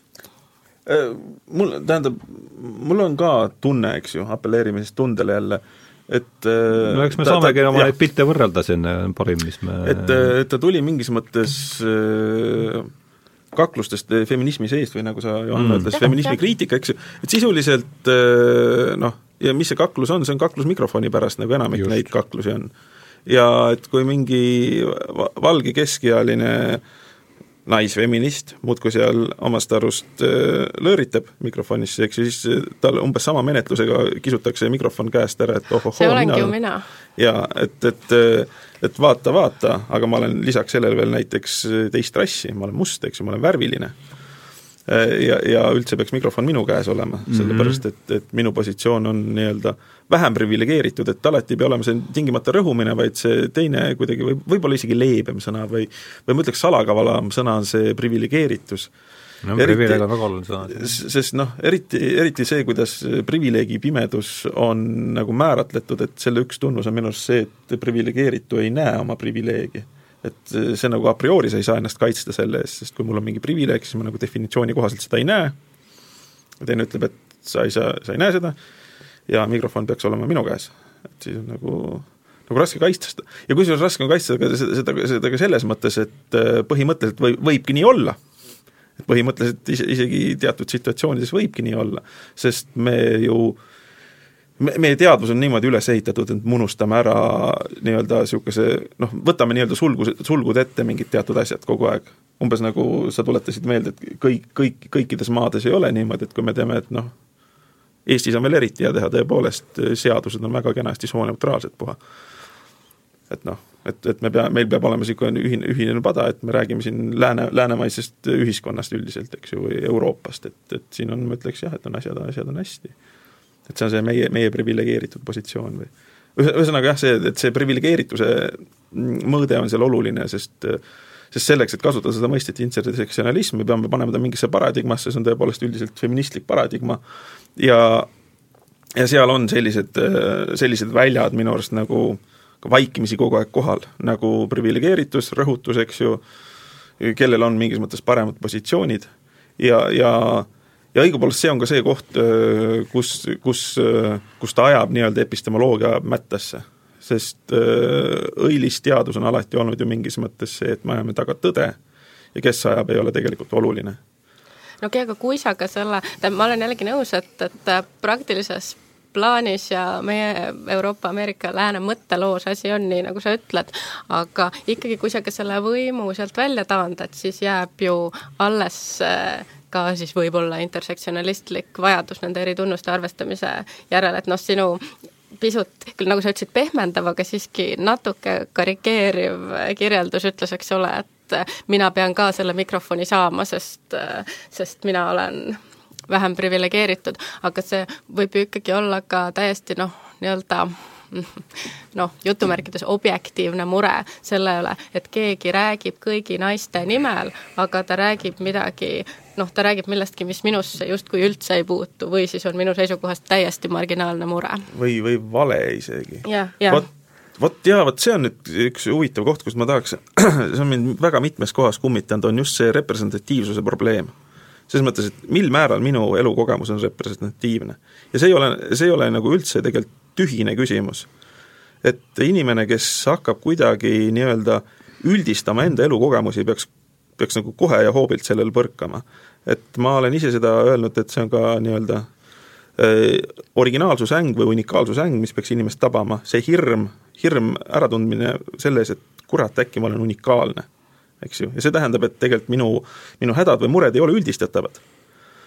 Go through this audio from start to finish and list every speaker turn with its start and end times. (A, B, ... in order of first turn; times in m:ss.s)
0:00.8-0:07.9 A
0:06.7-0:10.3 B
0:09.8-0:12.9 A
0:13.5-0:22.7 A
0:15.5-0:16.0 B
0:15.9-0:16.4 C
0:21.8-0:22.1 B
0:23.2-0:26.8 A
0:27.6-0:36.5 A
0:35.9-0:36.8 C
0:37.2-0:43.9 A
0:44.9-0:58.9 A
0:47.3-0:47.8 B
0:59.4-1:00.9 B
0:59.6-1:00.0 A
1:00.7-1:15.5 A
1:16.6-1:18.6 A
1:19.3-1:28.2 A
1:29.0-1:33.6 A
1:34.6-1:47.1 A
1:48.0-1:52.0 A
1:53.3-2:02.9 A
2:03.7-2:10.8 A
2:11.3-2:17.0 A
2:17.6-2:18.1 A
2:19.0-2:26.2 A
2:27.0-2:41.8 A
2:42.3-2:44.0 A
2:44.8-3:34.7 C
3:34.7-3:36.8 A
3:36.2-3:36.8 C
3:37.4-3:44.1 A
3:44.7-3:51.1 A
3:51.8-4:02.1 A
4:02.8-4:10.7 A
4:11.2-4:14.8 A